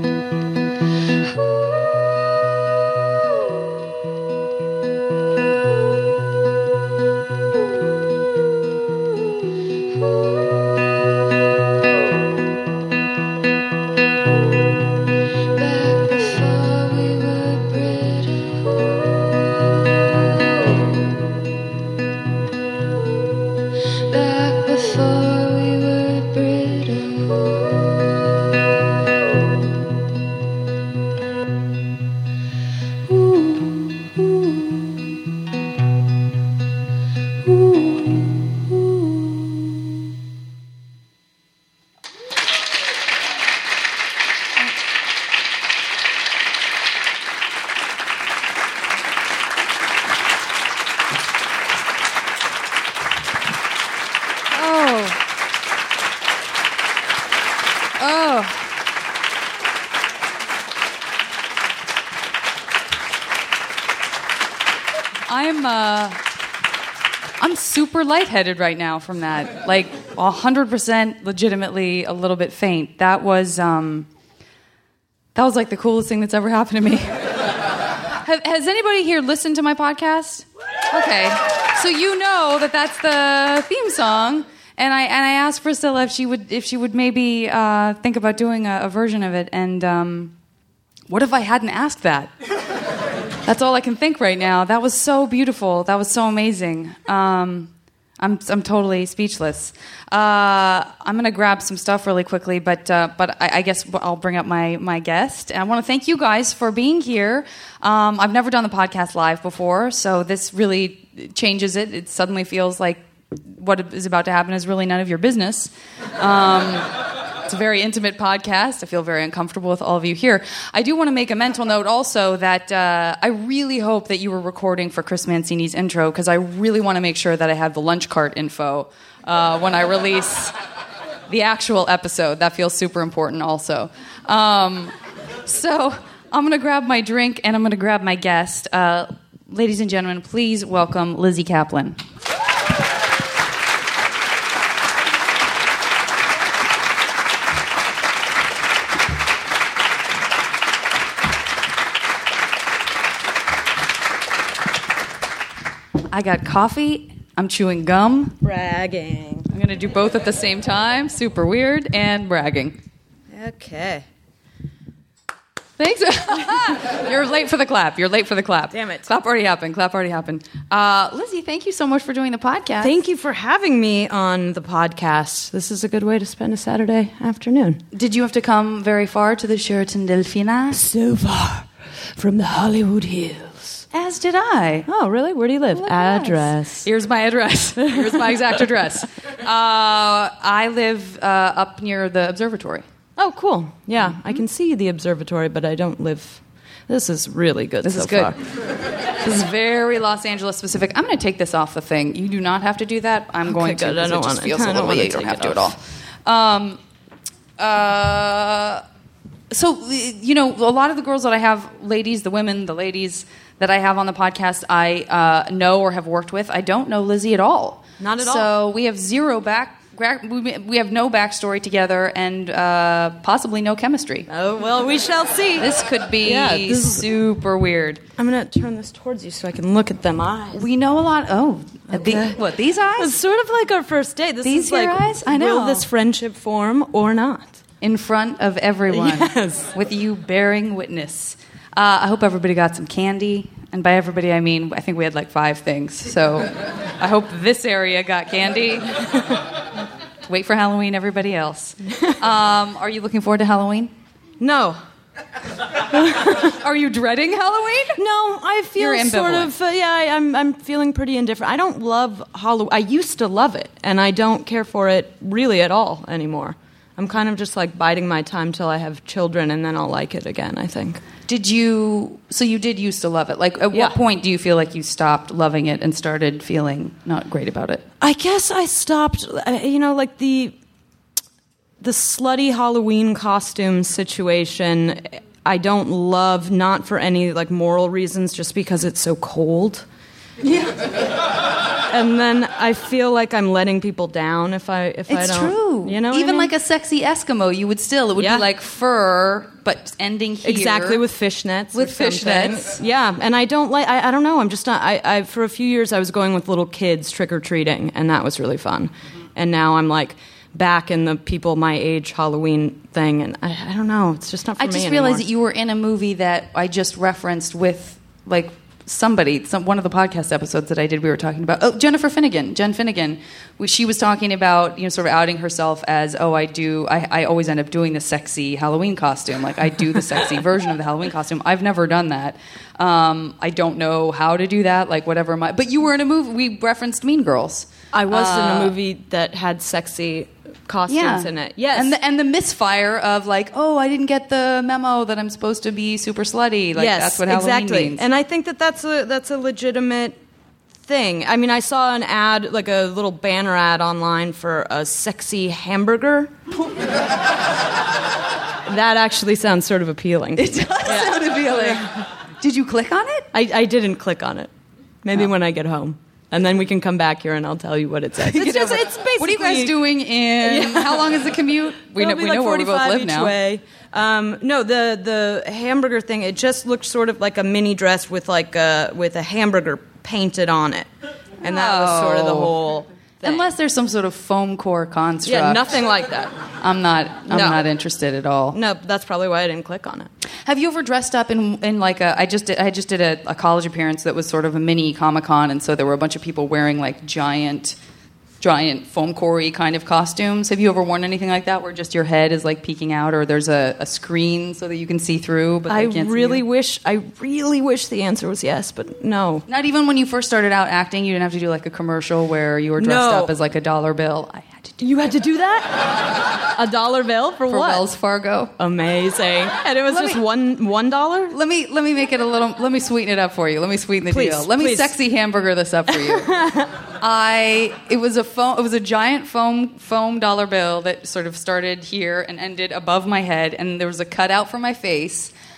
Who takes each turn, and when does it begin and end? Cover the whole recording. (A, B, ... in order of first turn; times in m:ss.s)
0:01.3-0:02.0 A
0:10.1-0:10.7 A
0:15.5-0:21.2 A
0:23.9-0:28.2 A
0:33.1-0:34.9 A
0:37.5-0:38.6 A
0:54.5-0:55.2 B
0:58.0-0:58.6 B
1:05.3-1:06.2 B
1:07.4-1:14.1 B
1:15.4-1:17.4 B
1:18.2-1:30.4 B
1:31.1-1:32.3 B
1:33.4-1:56.9 B
1:57.5-2:10.5 B
2:11.3-2:22.0 B
2:36.1-2:38.4 B
2:38.4-2:39.5 C
2:39.5-2:42.8 B
2:43.3-2:44.1 C
2:45.8-2:52.9 B
2:48.7-2:49.1 C
2:52.8-2:57.8 C
2:57.9-3:00.9 B
3:00.7-3:03.8 C
3:03.9-3:04.9 B
3:04.9-3:06.8 C
3:05.7-3:12.8 B
3:07.9-3:08.4 C
3:13.2-3:18.4 C
3:17.8-3:18.4 B
3:19.2-3:26.8 B
3:23.5-3:25.8 C
3:27.6-3:28.8 B
3:29.5-3:44.3 B
3:38.0-3:38.5 C
3:44.3-3:47.1 C
3:45.6-3:48.0 B
3:48.2-3:50.7 C
3:50.5-3:53.2 B
3:51.9-3:52.4 C
3:53.0-3:57.6 C
3:54.4-3:55.9 B
3:57.8-4:09.3 B
3:58.9-3:59.7 C
4:10.3-4:13.9 B
4:14.4-4:14.8 C
4:15.9-4:16.5 C
4:16.4-4:18.0 B
4:18.0-4:31.0 C
4:18.8-4:19.5 B
4:31.3-4:37.9 B
4:33.7-4:34.0 C
4:38.0-4:40.6 C
4:41.8-4:49.9 C
4:50.4-4:50.8 B
4:51.9-4:56.5 C
4:55.1-5:01.0 B
4:58.2-4:58.5 C
5:00.4-5:15.3 C
5:01.7-5:02.8 B
5:14.6-5:38.7 B
5:37.9-5:42.0 C
5:40.9-5:48.0 B
5:46.7-5:50.2 C
5:50.8-5:56.4 C
5:58.7-6:02.0 C
6:00.4-6:03.3 B
6:03.3-6:04.5 C
6:05.0-6:09.9 C
6:08.2-6:13.3 B
6:10.4-6:11.2 C
6:12.0-6:20.9 C
6:21.4-6:23.5 C
6:21.4-6:22.5 B
6:23.2-6:25.6 B
6:25.2-6:26.4 C
6:26.6-6:28.6 B
6:27.3-6:27.6 C
6:28.5-6:30.1 C
6:30.4-6:37.8 B
6:38.4-6:46.4 B
6:45.7-6:49.5 C
6:49.5-6:54.8 B
6:52.8-6:53.3 C
6:54.8-6:57.9 C
6:57.5-6:58.5 B
6:58.6-7:01.4 C
6:59.9-7:00.2 B
7:01.3-7:06.4 B
7:04.1-7:04.9 C
7:06.0-7:06.7 C
7:07.0-7:15.3 B